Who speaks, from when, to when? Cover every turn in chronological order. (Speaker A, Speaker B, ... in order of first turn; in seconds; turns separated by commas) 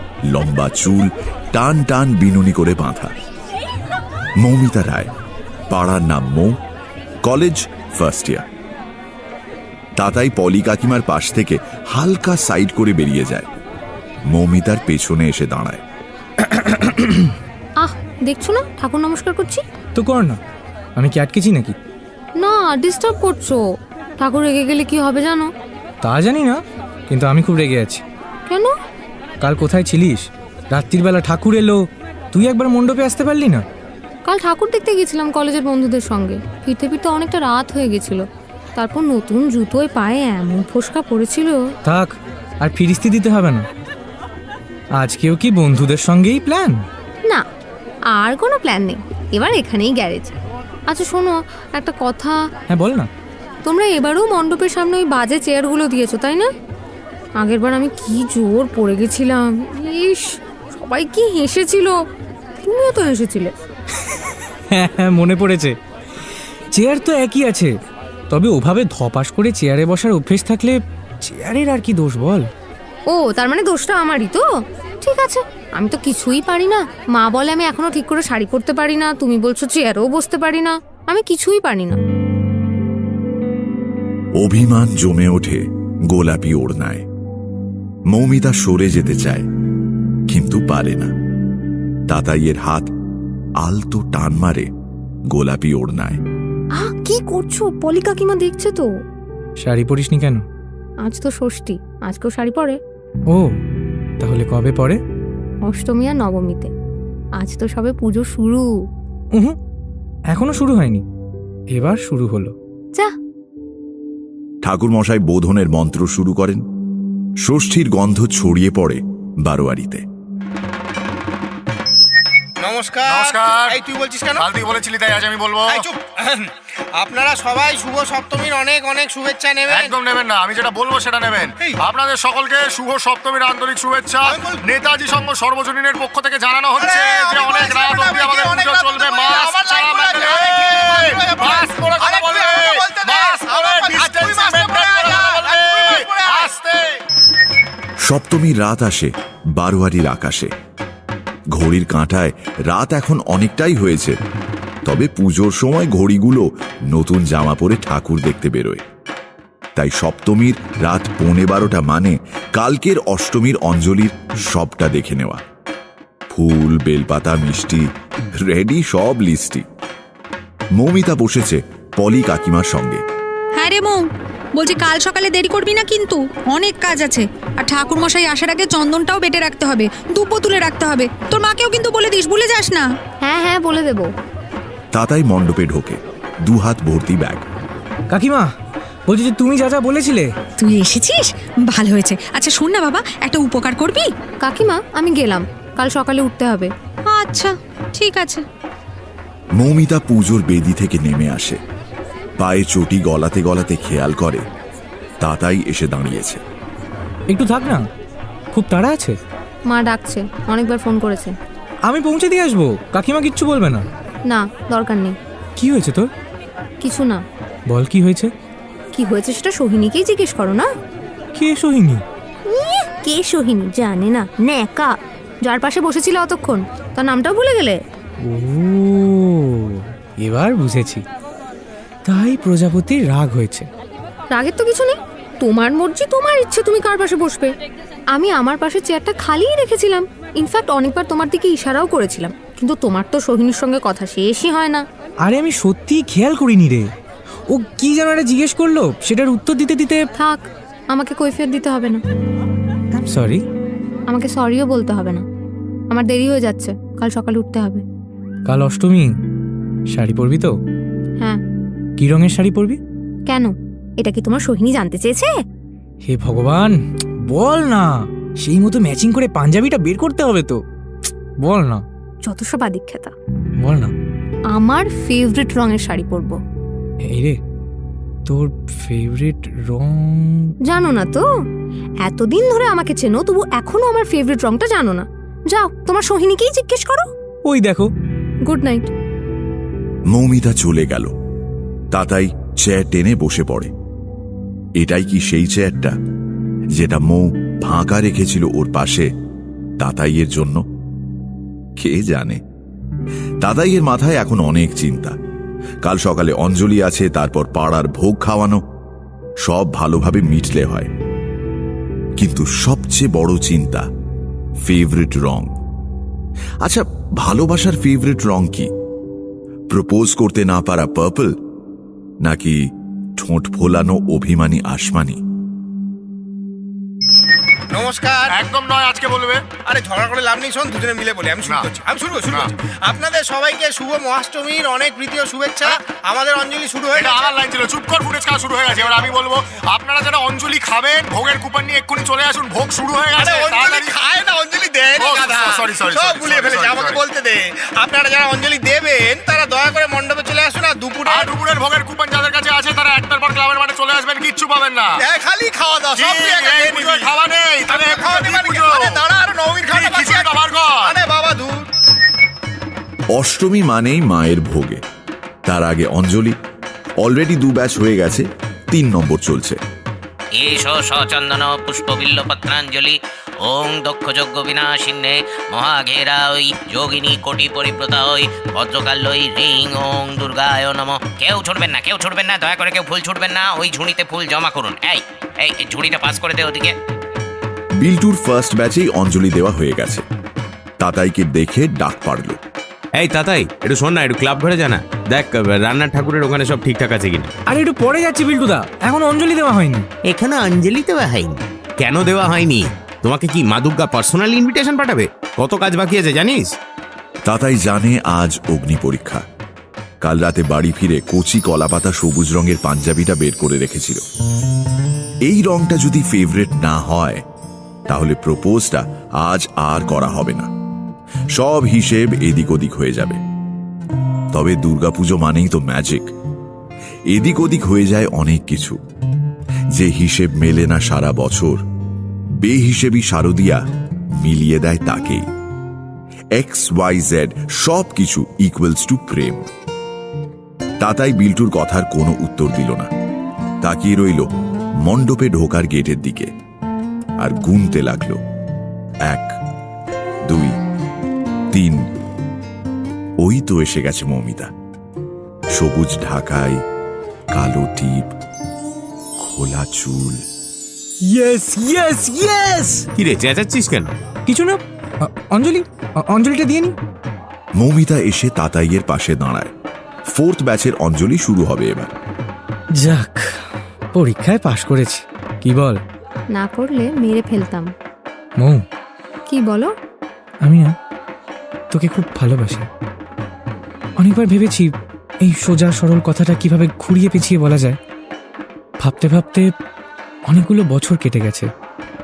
Speaker A: 0.3-3.1, Speaker A: 4.4-5.1, Speaker A: 5.7-6.5, Speaker A: 7.2-8.4, Speaker A: 10.0-13.5, Speaker A: 14.3-15.8, Speaker B: 16.5-17.3, Speaker C: 17.8-19.6, Speaker B: 19.9-20.4, Speaker B: 21.0-21.7, Speaker C: 22.4-23.6, Speaker C: 24.2-25.5, Speaker B: 26.0-28.0, Speaker C: 28.5-28.7, Speaker B: 29.4-33.6, Speaker C: 34.3-38.2, Speaker C: 38.8-41.6, Speaker B: 41.8-43.7, Speaker B: 45.0-46.9, Speaker C: 48.1-50.4, Speaker C: 50.9-52.4, Speaker B: 52.7-53.1, Speaker C: 53.6-56.5, Speaker C: 57.4-62.0, Speaker C: 62.6-63.5, Speaker B: 64.7-65.7, Speaker B: 66.7-67.7, Speaker B: 68.3-72.5, Speaker C: 73.1-74.4, Speaker C: 75.0-82.0, Speaker A: 84.4-87.0, Speaker A: 88.1-89.5, Speaker A: 90.3-91.1, Speaker A: 92.1-92.9, Speaker A: 93.6-94.7, Speaker A: 95.3-96.2, Speaker C: 96.8-98.9, Speaker B: 99.6-100.4, Speaker C: 101.0-102.8, Speaker B: 104.2-105.0, Speaker C: 105.7-106.7, Speaker C: 107.4-108.7, Speaker B: 110.3-111.0, Speaker B: 111.7-112.5, Speaker A: 114.6-116.6, Speaker A: 117.4-120.0, Speaker D: 122.6-124.5, Speaker E: 123.1-123.7, Speaker E: 124.4-125.8, Speaker D: 125.7-129.9, Speaker E: 129.7-146.7, Speaker D: 134.2-134.6, Speaker D: 136.8-146.6, Speaker A: 148.0-150.5, Speaker A: 151.5-154.2, Speaker A: 154.8-158.8, Speaker A: 159.8-165.4, Speaker A: 166.3-169.6, Speaker A: 170.7-173.0, Speaker F: 173.6-174.0, Speaker F: 174.6-182.9, Speaker C: 183.2-184.1, Speaker A: 184.9-187.4, Speaker B: 188.1-188.5, Speaker B: 189.1-190.3, Speaker F: 190.6-194.1, Speaker C: 194.4-196.7, Speaker F: 197.1-198.4, Speaker A: 199.6-201.6, Speaker A: 202.4-204.4, Speaker A: 205.2-206.4, Speaker B: 207.3-207.8, Speaker B: 208.5-209.2, Speaker C: 209.7-211.3, Speaker B: 211.9-213.8, Speaker C: 214.3-215.2, Speaker B: 215.6-216.1, Speaker C: 216.8-217.2, Speaker B: 217.7-218.3, Speaker C: 218.9-220.7, Speaker B: 221.3-222.0, Speaker C: 222.5-227.8, Speaker B: 228.2-231.0, Speaker B: 232.1-233.7, Speaker C: 234.3-237.5, Speaker C: 238.1-244.8, Speaker B: 245.2-246.9, Speaker B: 247.5-250.0, Speaker C: 250.2-252.0, Speaker B: 252.9-253.4, Speaker C: 254.1-255.2, Speaker C: 255.9-257.8, Speaker B: 258.4-259.1, Speaker B: 259.9-260.5, Speaker B: 262.0-262.8, Speaker C: 263.3-265.3, Speaker B: 266.1-266.8, Speaker B: 267.3-270.6, Speaker B: 271.4-271.8, Speaker C: 272.2-273.1, Speaker B: 273.6-273.9, Speaker C: 274.5-276.4, Speaker B: 277.1-277.4, Speaker B: 278.2-280.5, Speaker C: 280.7-281.2, Speaker C: 282.0-287.1, Speaker B: 287.4-287.9, Speaker C: 288.5-288.9, Speaker A: 290.1-291.1, Speaker A: 291.9-293.7, Speaker A: 294.8-295.9, Speaker A: 296.7-299.1, Speaker A: 299.8-300.6, Speaker A: 301.8-302.4, Speaker A: 303.4-305.1, Speaker A: 305.8-308.6, Speaker A: 309.4-310.9, Speaker A: 312.2-313.9, Speaker A: 314.6-315.5, Speaker A: 316.6-318.7, Speaker A: 319.7-321.4, Speaker A: 322.2-322.6, Speaker A: 323.2-325.2, Speaker D: 327.7-328.3, Speaker E: 328.3-329.4, Speaker D: 329.6-337.4, Speaker E: 336.9-343.9, Speaker D: 343.1-351.3, Speaker E: 345.0-347.0, Speaker E: 351.1-354.9, Speaker D: 355.0-357.1, Speaker E: 355.9-359.0, Speaker D: 357.7-361.6, Speaker E: 359.7-360.9, Speaker A: 363.1-364.8, Speaker A: 365.4-366.4, Speaker A: 367.0-369.6, Speaker G: 370.4-386.7, Speaker A: 387.8-390.0, Speaker A: 390.8-392.4, Speaker H: 393.0-397.3, Speaker B: 397.5-399.9, Speaker H: 400.1-406.5, Speaker A: 407.2-409.2, Speaker A: 410.0-414.0, Speaker A: 415.2-417.2, Speaker A: 417.9-420.5, Speaker A: 421.3-423.2, Speaker A: 424.3-426.1, Speaker A: 427.1-428.8, Speaker A: 429.7-431.6, Speaker A: 432.4-433.6, Speaker A: 434.2-435.2, Speaker A: 436.3-439.5, Speaker A: 440.8-442.9, Speaker A: 443.6-444.3, Speaker A: 444.8-446.3, Speaker A: 447.2-448.2, Speaker A: 449.1-449.3, Speaker A: 450.3-450.5, Speaker A: 451.5-451.8, Speaker A: 453.2-454.5, Speaker A: 455.5-456.6, Speaker A: 457.3-458.1, Speaker A: 459.2-460.2, Speaker B: 461.1-462.9, Speaker H: 462.9-463.9, Speaker B: 464.3-466.7, Speaker A: 467.6-469.5, Speaker A: 470.1-471.9, Speaker B: 472.8-475.8, Speaker C: 476.3-477.7, Speaker B: 478.4-478.6, Speaker C: 479.3-479.7, Speaker B: 480.4-480.7, Speaker B: 481.7-482.7, Speaker B: 484.0-484.7, Speaker B: 485.2-487.8, Speaker B: 488.8-489.4, Speaker B: 490.3-491.5